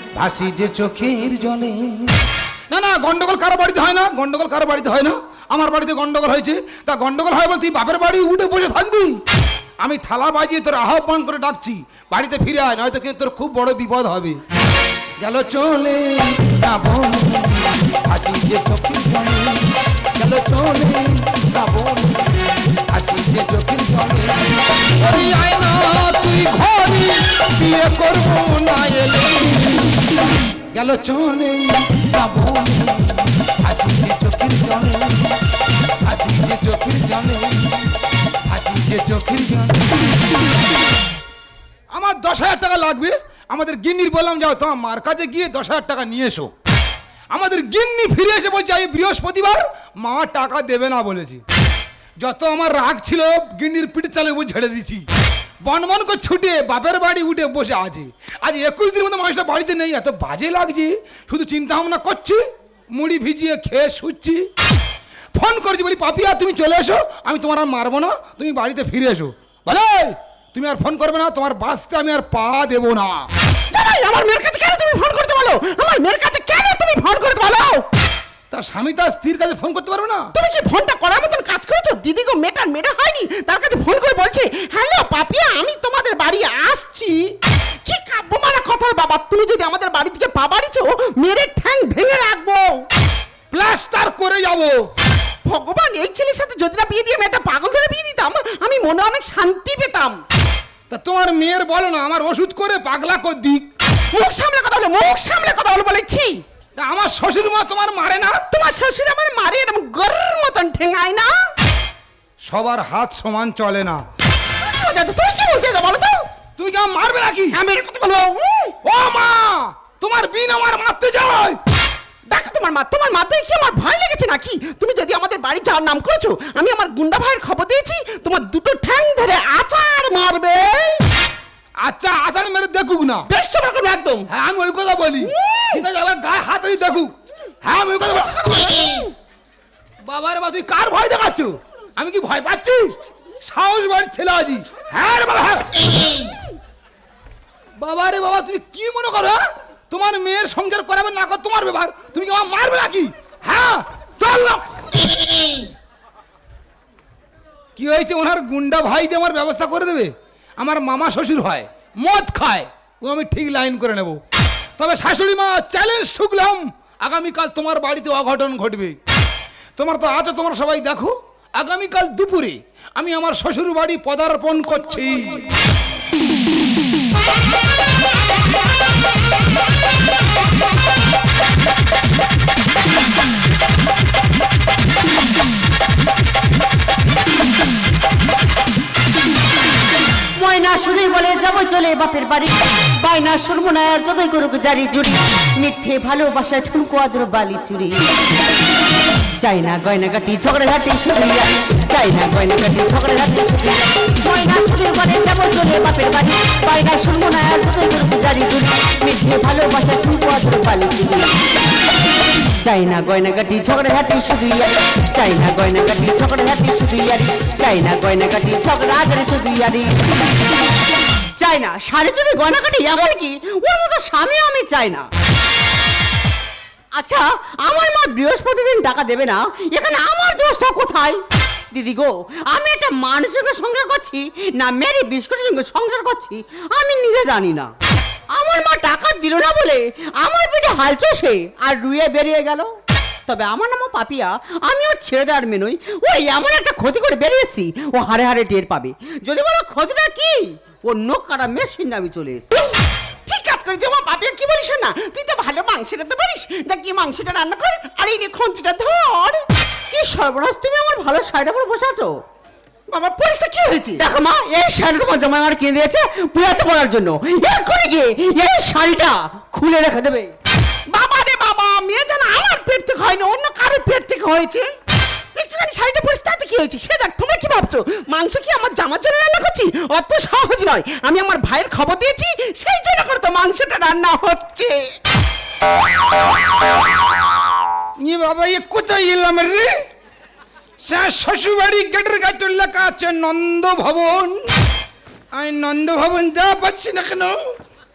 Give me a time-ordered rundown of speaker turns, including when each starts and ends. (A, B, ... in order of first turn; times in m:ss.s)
0:00.2-0:02.2 A
0:02.7-0:09.2 A
0:09.8-0:14.4 A
0:15.2-0:30.1 A
0:30.7-0:35.4 A
0:36.0-0:37.8 A
0:38.5-0:40.2 A
0:41.9-0:46.5 A
0:47.3-0:51.4 A
0:52.2-0:55.1 A
0:55.6-1:02.4 A
1:02.9-1:04.5 A
1:05.4-1:13.3 A
1:13.7-1:17.8 B
1:18.5-1:20.3 A
1:20.3-1:27.3 B
1:27.9-1:32.8 B
1:33.5-1:34.8 A
1:35.4-1:40.2 B
1:40.9-1:43.7 A
1:44.1-1:46.4 B
1:46.8-1:48.4 A
1:48.5-1:51.4 B
1:52.4-1:54.0 A
1:54.6-1:56.2 B
1:56.6-1:57.6 A
1:57.5-1:58.8 B
1:58.8-2:01.6 A
2:02.3-2:11.0 B
2:11.8-2:13.3 A
2:13.3-2:14.3 B
2:14.3-2:17.1 A
2:15.3-2:15.8 B
2:17.6-2:18.8 A
2:18.3-2:19.1 B
2:20.0-2:26.2 A
2:27.8-2:35.1 A
2:37.8-2:44.2 A
2:44.8-2:49.0 A
2:49.8-2:55.4 A
3:10.4-3:18.1 C
3:19.4-3:31.4 C
3:32.5-3:40.2 C
3:41.4-3:45.1 C
3:46.9-3:57.7 C
3:58.3-4:12.5 C
4:13.3-4:19.4 B
4:19.9-4:22.2 C
4:22.9-4:24.0 B
4:24.0-4:30.3 C
4:30.9-4:34.7 B
4:35.4-4:44.7 B
4:48.0-4:49.7 A
4:50.8-4:54.5 A
4:55.3-4:57.4 A